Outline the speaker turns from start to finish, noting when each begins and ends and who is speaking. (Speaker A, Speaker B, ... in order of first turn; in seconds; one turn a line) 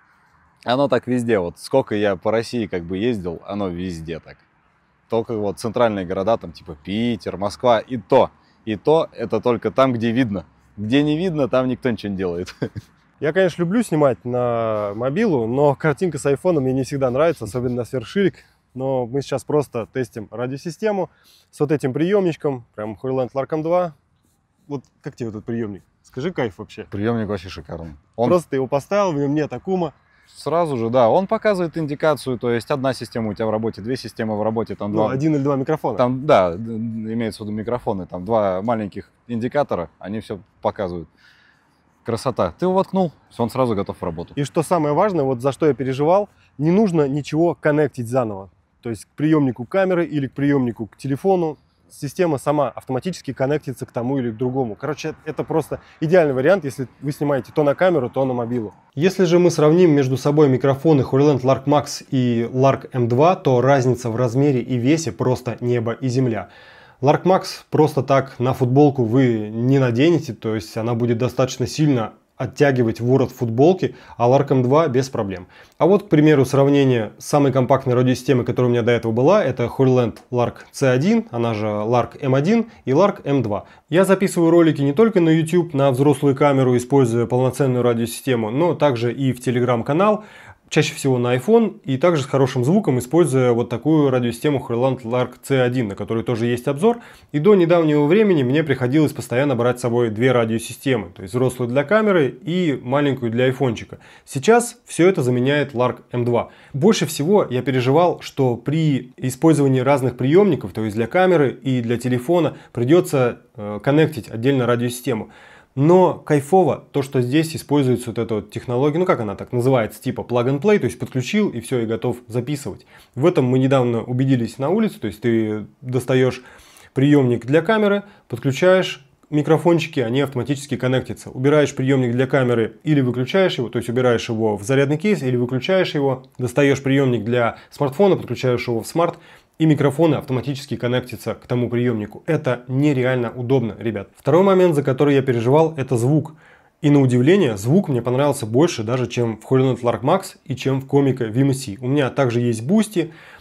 Speaker A: 0.6-4.4
Speaker A: 5.1-12.7
Speaker B: 13.2-23.9
Speaker B: 24.7-26.9
Speaker A: 26.9-28.4
Speaker B: 28.2-29.9
Speaker A: 30.3-35.2
Speaker B: 34.9-36.1
Speaker A: 36.0-41.1
Speaker A: 42.0-44.4
Speaker B: 44.4-66.5
Speaker B: 67.0-126.4
Speaker B: 126.9-153.1